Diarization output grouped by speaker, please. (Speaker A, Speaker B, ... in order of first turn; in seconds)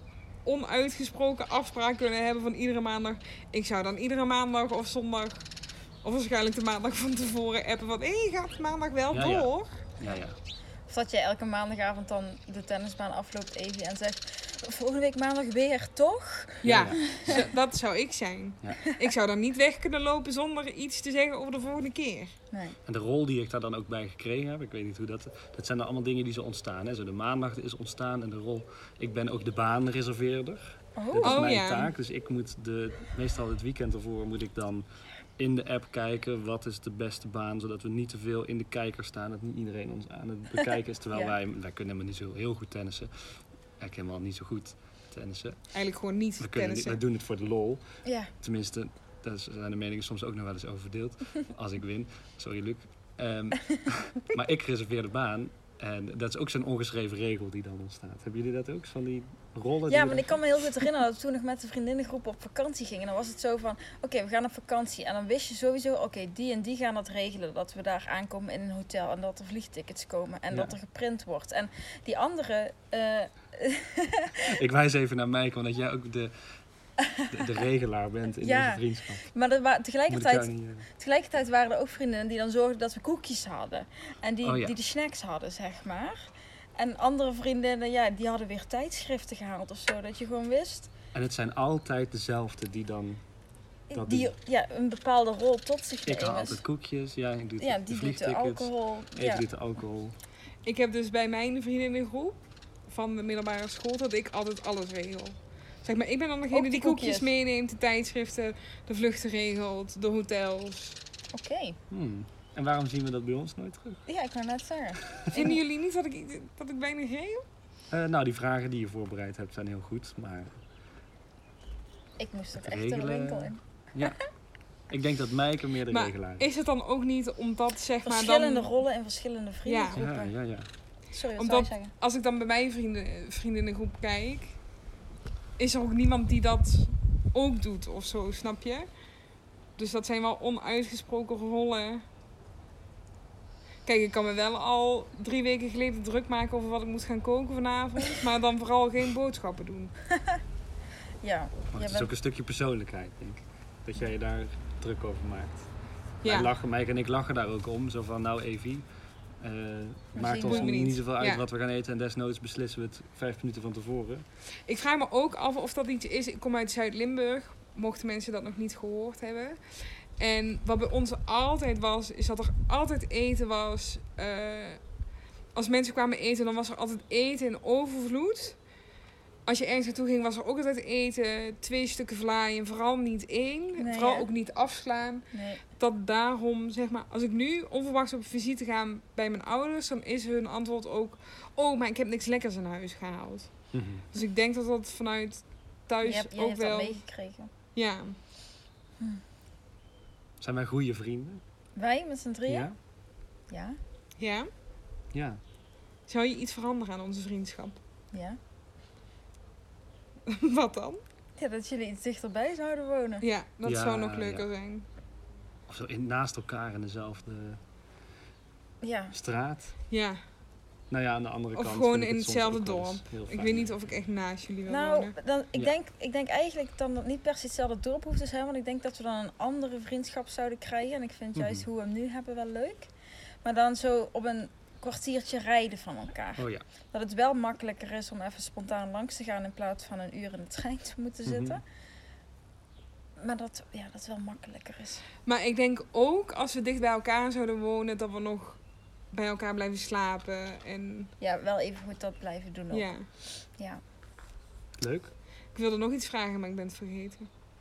Speaker A: 0.4-5.4, 6.0-9.7, 16.6-22.3, 31.2-31.9, 45.7-47.0, 100.7-111.0, 115.3-117.4, 125.9-128.7, 129.7-130.0, 131.4-134.6, 135.6-138.9, 139.8-142.0, 143.8-149.9, 156.2-156.5, 160.4-161.4, 164.7-169.6, 170.2-174.8, 175.5-178.6, 179.5-185.2, 185.8-193.5, 194.1-197.0, 197.7-198.2, 204.2-204.5, 206.1-207.8, 210.3-211.0, 213.2-214.8, 219.9-220.2, 221.5-225.1, 245.2-248.6, 249.1-251.1, 252.7-253.1, 255.5-257.3
Speaker B: 9.1-10.4, 16.6-17.0, 22.9-34.9, 35.4-45.7, 46.4-47.8, 48.4-60.6, 74.4-76.3, 77.3-79.3, 80.1-80.9, 84.4-84.8, 91.1-93.2, 93.9-94.3, 96.0-100.1, 111.9-114.0, 117.9-120.6, 122.6-124.2, 124.9-126.5, 129.9-130.7, 151.7-155.7, 156.2-158.8, 159.4-164.2, 193.7-194.0, 200.4-201.4, 202.5-202.8, 205.1-205.4, 213.6-214.4, 215.7-217.6, 219.1-219.7, 220.9-223.7, 231.3-231.6, 236.4-236.6, 241.2-241.6, 254.8-255.1
Speaker C: 10.9-17.5, 22.5-22.8, 30.9-31.5, 48.0-48.3, 59.9-74.5, 77.0-77.3, 78.4-90.9, 93.9-96.6, 97.6-99.5, 106.5-107.3, 111.3-111.8, 114.1-115.6, 122.2-124.1, 128.0-130.3, 131.1-131.9, 150.1-150.4, 151.2-152.1, 160.1-160.8, 183.8-184.3, 185.3-185.6, 196.0-197.5, 201.8-202.7, 203.5-203.8, 208.1-208.4, 211.4-213.2, 218.8-219.2, 224.7-232.9, 233.4-241.6, 243.2-245.0, 251.2-252.9